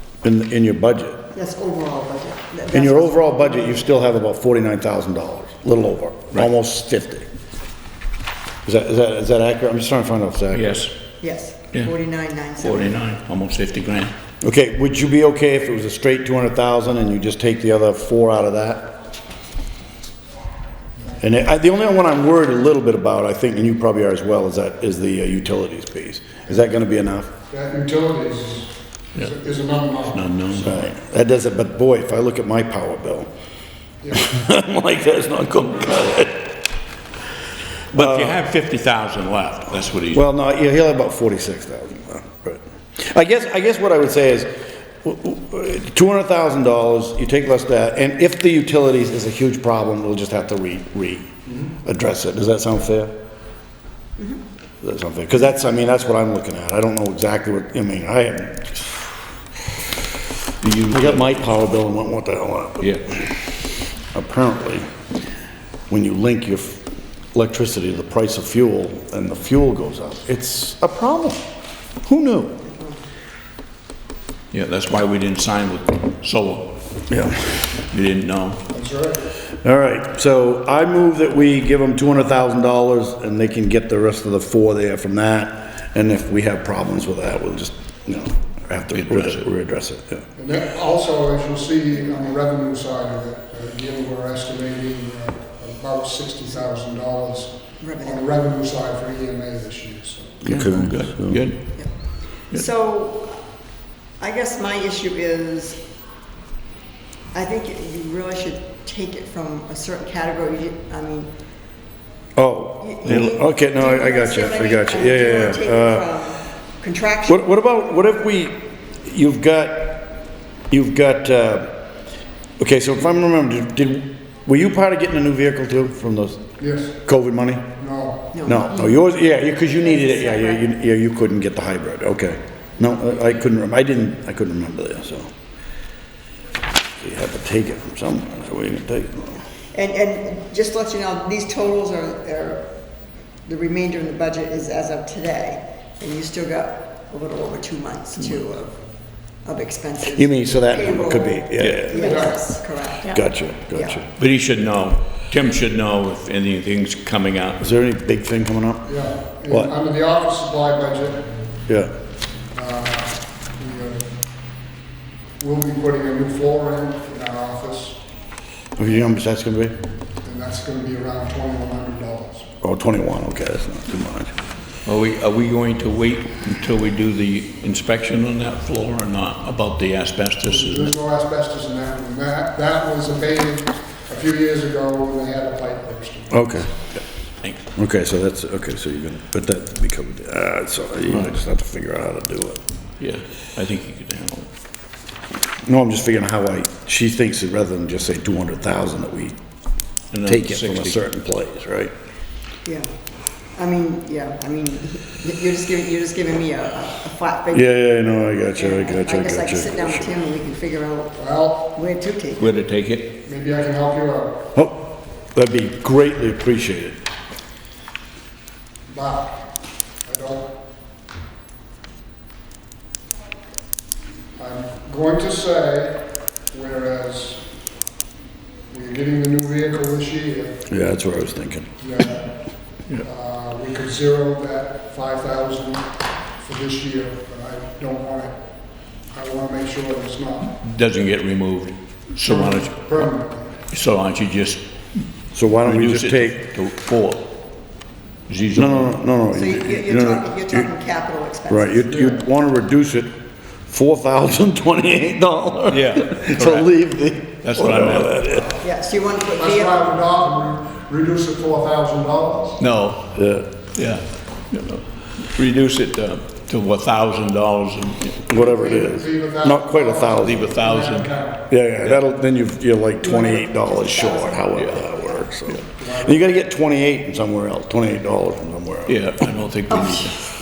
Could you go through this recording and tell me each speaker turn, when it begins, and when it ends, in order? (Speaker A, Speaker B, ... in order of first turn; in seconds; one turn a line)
Speaker A: 0.2-1.3
Speaker B: 1.3-3.9
Speaker A: 2.7-7.3
Speaker A: 8.7-10.8
Speaker C: 10.5-10.9
Speaker B: 11.2-13.0
Speaker C: 12.6-14.2
Speaker A: 14.4-18.9
Speaker A: 21.2-27.3
Speaker D: 27.5-30.7
Speaker C: 30.1-30.7
Speaker A: 30.6-33.3
Speaker D: 34.0-34.3
Speaker A: 34.1-36.6
Speaker C: 37.9-40.2
Speaker A: 37.9-38.4
Speaker A: 40.1-53.1
Speaker A: 54.8-59.1
Speaker C: 60.6-61.5
Speaker A: 60.9-63.2
Speaker C: 62.8-63.1
Speaker A: 64.1-64.9
Speaker A: 65.9-71.5
Speaker A: 72.0-72.7
Speaker B: 72.7-73.0
Speaker C: 74.5-76.8
Speaker A: 77.1-77.7
Speaker C: 77.8-78.6
Speaker D: 78.7-79.3
Speaker A: 79.6-90.3
Speaker C: 88.9-89.5
Speaker D: 90.4-100.4
Speaker B: 97.8-98.3
Speaker A: 100.4-101.5
Speaker C: 100.5-102.6
Speaker B: 101.8-103.4
Speaker B: 104.2-105.8
Speaker B: 107.3-111.3
Speaker A: 112.4-116.1
Speaker B: 112.8-117.4
Speaker A: 117.3-120.2
Speaker A: 120.7-121.8
Speaker A: 122.6-127.7
Speaker D: 126.6-127.0
Speaker D: 127.8-128.4
Speaker B: 128.3-129.0
Speaker A: 128.4-135.3
Speaker B: 129.7-130.6
Speaker A: 137.0-139.4
Speaker B: 139.7-142.7
Speaker B: 143.5-148.8
Speaker B: 149.4-154.0
Speaker A: 150.1-152.2
Speaker C: 151.6-152.0
Speaker D: 152.0-152.4
Speaker A: 153.1-154.1
Speaker C: 154.2-157.6
Speaker A: 157.6-158.9
Speaker D: 158.9-161.3
Speaker A: 161.7-161.9
Speaker D: 162.5-164.1
Speaker D: 165.4-168.0
Speaker A: 168.8-169.8
Speaker D: 170.2-172.5
Speaker A: 172.6-174.3
Speaker C: 174.8-180.9
Speaker D: 180.4-186.4
Speaker A: 186.3-187.0
Speaker A: 187.8-192.6
Speaker C: 193.0-194.5
Speaker A: 195.7-199.4
Speaker C: 200.1-201.0
Speaker A: 200.3-201.9
Speaker B: 202.7-202.9
Speaker B: 203.5-207.7
Speaker A: 207.5-210.1
Speaker B: 208.6-212.6
Speaker D: 211.2-211.7
Speaker C: 212.4-213.1
Speaker D: 213.2-214.4
Speaker A: 214.6-217.0
Speaker D: 218.9-219.5
Speaker D: 220.0-220.6
Speaker D: 224.4-227.5
Speaker D: 228.7-230.7
Speaker A: 230.7-231.7
Speaker D: 231.8-232.3
Speaker D: 232.9-238.3
Speaker D: 239.1-240.5
Speaker C: 240.5-243.1
Speaker D: 242.2-243.6
Speaker C: 243.7-247.3
Speaker A: 245.3-246.4
Speaker C: 248.3-248.9
Speaker A: 248.6-250.7
Speaker B: 249.3-251.8
Speaker A: 251.5-253.1
Speaker D: 251.9-252.3
Speaker A: 253.7-258.6
Speaker C: 255.7-256.7
Speaker C: 257.4-258.2
Speaker D: 258.3-258.7
Speaker B: 258.6-259.9
Speaker D: 259.4-262.6
Speaker C: 262.6-263.1
Speaker A: 263.1-263.5
Speaker C: 263.7-268.2
Speaker A: 268.3-270.5
Speaker D: 268.3-271.5
Speaker C: 270.2-271.1
Speaker A: 271.5-279.2
Speaker B: 273.0-275.2
Speaker C: 274.5-274.9
Speaker D: 275.8-276.2
Speaker C: 278.9-280.2
Speaker B: 279.7-280.1